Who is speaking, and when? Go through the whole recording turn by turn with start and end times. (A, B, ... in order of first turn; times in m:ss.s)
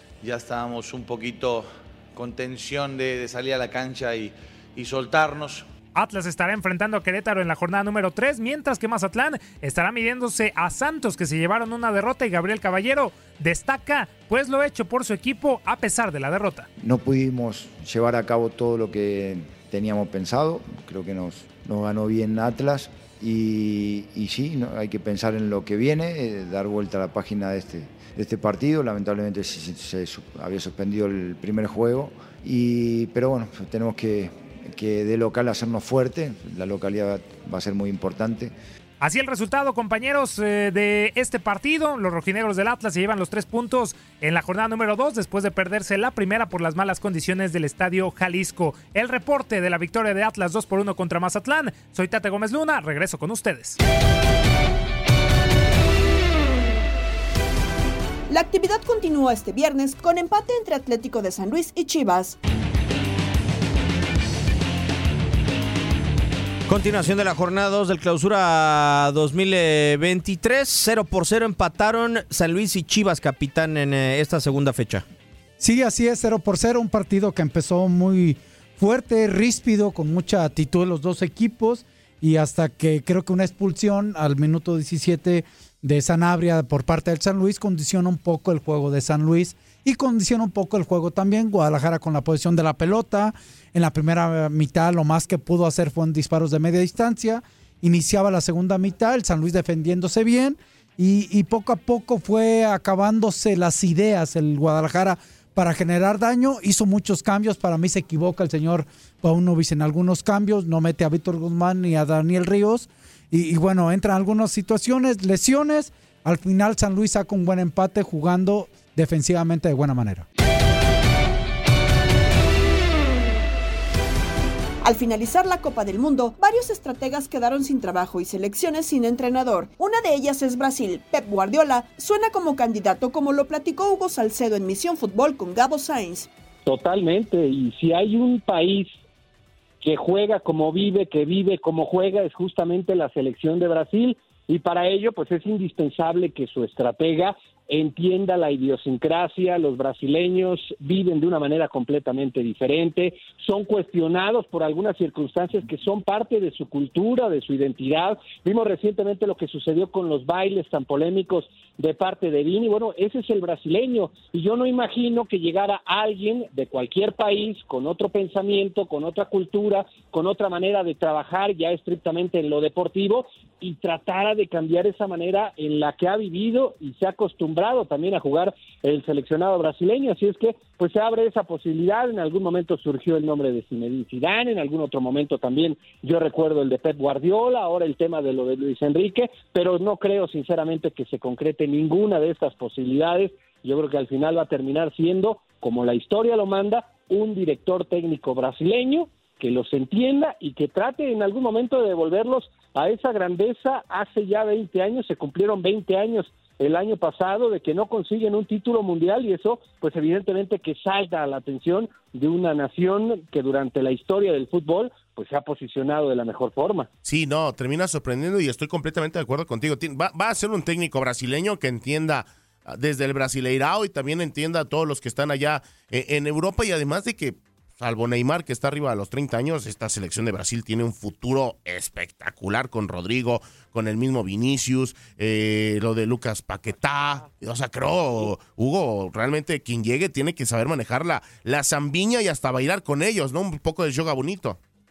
0:00.2-0:05.7 A
0:06.0-0:16.7 B
0:16.8-0:38.5 C
0:39.0-0:53.8 B
0:58.3-1:02.4 D
1:06.7-1:15.0 E
1:15.6-2:00.3 F
2:04.8-2:16.3 D
2:16.7-2:19.0 G
2:19.8-3:36.9 G
3:37.1-4:04.6 H